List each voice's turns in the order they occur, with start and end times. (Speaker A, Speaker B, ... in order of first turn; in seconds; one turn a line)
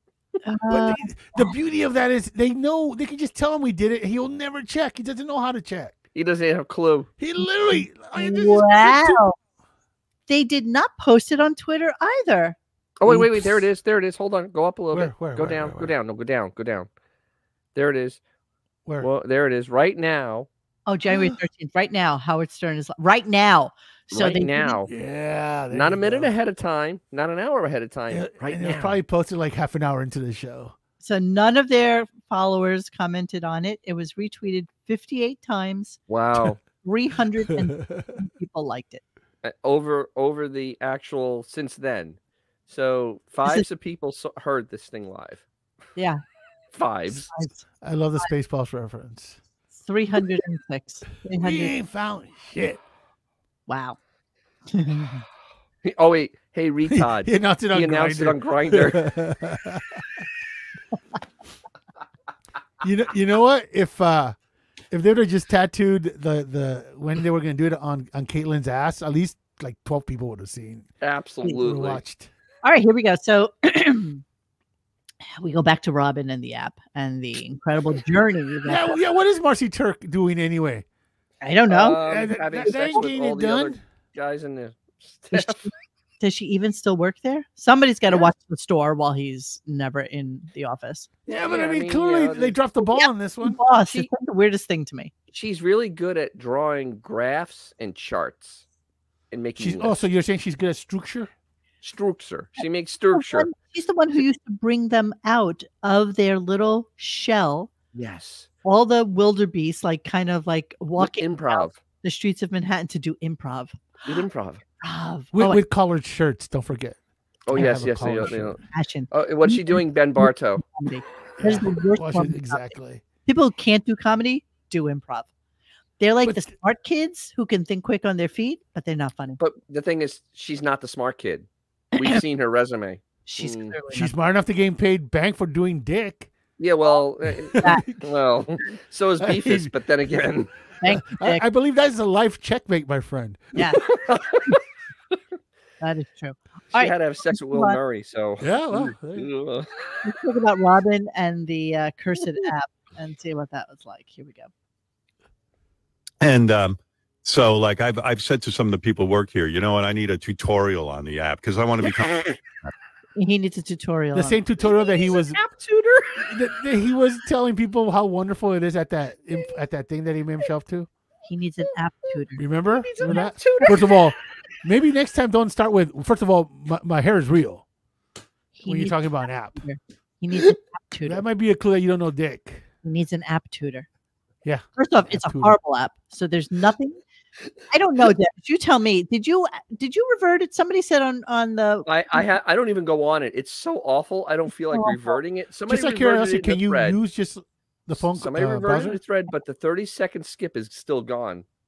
Speaker A: 0.4-1.5
Speaker B: 0.7-5.9
Speaker C: 6.1-7.1
Speaker B: 7.2-9.2
Speaker A: 7.4-9.3
Speaker A: 10.3-12.6
Speaker C: 13.0-16.9
Speaker B: 13.1-13.7
Speaker B: 14.9-15.9
Speaker C: 17.7-18.2
Speaker C: 19.0-20.5
Speaker A: 20.9-24.8
Speaker B: 21.1-21.4
Speaker C: 24.1-24.9
Speaker B: 24.9-26.3
Speaker C: 25.7-29.0
Speaker B: 28.1-30.7
Speaker A: 31.0-36.0
Speaker C: 36.1-36.6
Speaker A: 36.8-39.0
Speaker B: 37.5-38.2
Speaker C: 39.4-45.4
Speaker A: 46.0-46.2
Speaker C: 46.7-47.3
Speaker A: 47.1-47.6
Speaker B: 47.8-49.4
Speaker A: 49.7-51.7
Speaker B: 51.3-52.8
Speaker A: 53.7-54.0
Speaker A: 54.7-55.2
Speaker C: 55.8-59.0
Speaker B: 56.9-60.0
Speaker B: 62.8-64.3
Speaker B: 64.9-70.9
Speaker C: 71.0-72.0
Speaker B: 71.4-72.3
Speaker A: 72.6-74.2
Speaker A: 75.4-79.0
Speaker B: 78.7-80.8
Speaker A: 81.4-82.0
Speaker C: 81.7-85.6
Speaker B: 81.9-83.8
Speaker A: 85.3-85.7
Speaker A: 86.2-91.1
Speaker B: 91.3-93.6
Speaker C: 91.3-92.6
Speaker A: 92.8-95.1
Speaker C: 95.3-98.6
Speaker C: 99.3-100.0
Speaker B: 99.6-101.3
Speaker C: 101.8-103.5
Speaker A: 102.6-107.7
Speaker C: 107.9-108.5
Speaker A: 108.6-114.2
Speaker C: 111.0-111.8
Speaker C: 114.0-114.6
Speaker A: 114.8-115.6
Speaker B: 115.3-117.0
Speaker C: 117.5-120.6
Speaker B: 117.5-118.6
Speaker A: 118.7-122.7
Speaker B: 121.4-123.0
Speaker A: 123.2-125.3
Speaker A: 126.0-129.4
Speaker C: 129.4-133.8
Speaker A: 133.2-134.1
Speaker B: 133.9-136.3
Speaker C: 136.6-140.5
Speaker B: 137.3-138.1
Speaker A: 137.6-137.8
Speaker B: 139.2-139.7
Speaker A: 140.8-141.4
Speaker B: 140.9-143.6
Speaker A: 143.6-143.8
Speaker C: 143.8-144.6
Speaker A: 145.8-147.8
Speaker C: 146.7-149.7
Speaker B: 148.4-149.3
Speaker A: 150.0-154.5
Speaker D: 156.2-162.7
Speaker A: 163.2-164.4
Speaker B: 164.1-165.4
Speaker C: 165.2-166.2
Speaker B: 166.2-170.9
Speaker A: 171.2-172.5
Speaker B: 172.4-177.6
Speaker C: 172.8-173.8
Speaker A: 173.0-173.8
Speaker A: 178.5-181.2
Speaker B: 178.6-179.6
Speaker B: 181.0-182.6
Speaker A: 182.8-183.9
Speaker B: 184.4-185.6
Speaker A: 184.8-187.0
Speaker A: 187.7-192.3
Speaker C: 191.8-197.0
Speaker A: 194.7-195.2
Speaker B: 195.7-199.0
Speaker C: 198.0-201.4